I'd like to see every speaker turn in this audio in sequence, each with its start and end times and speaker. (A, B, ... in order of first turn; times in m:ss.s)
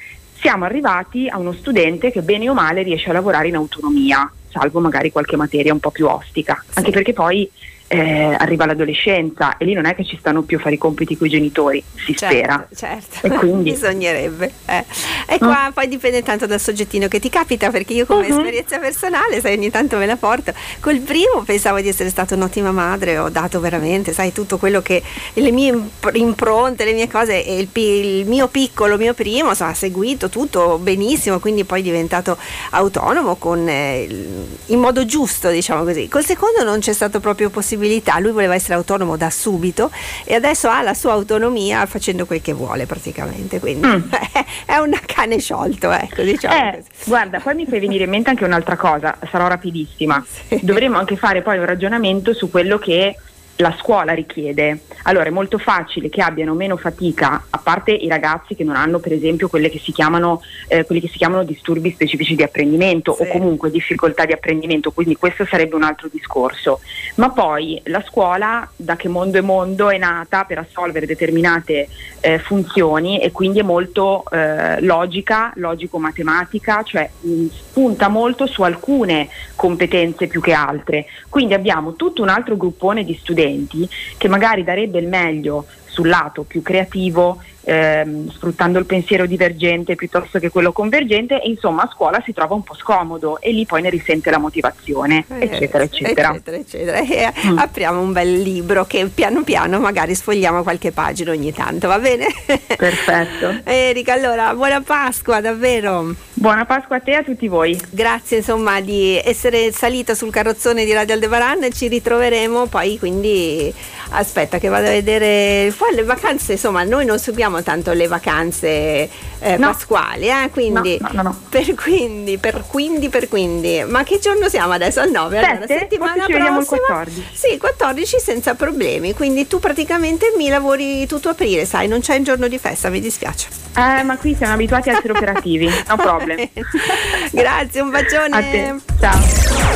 0:00.4-0:12.6 A
0:12.1-0:47.7 B
0:13.2-0:13.8 A
0:18.1-0:18.5 A
0:43.8-0:44.1 A
0:46.5-1:36.4 A
0:50.2-0:50.8 B
1:03.2-1:03.4 B
1:35.3-1:46.2 B
1:42.8-1:43.6 A
1:46.4-1:47.8 A
1:47.8-2:13.5 B
2:00.7-2:01.4 A
2:05.4-2:07.3 A
2:13.8-2:17.1 A
2:14.9-2:15.3 B
2:15.8-2:18.8 B
2:18.3-2:19.3 A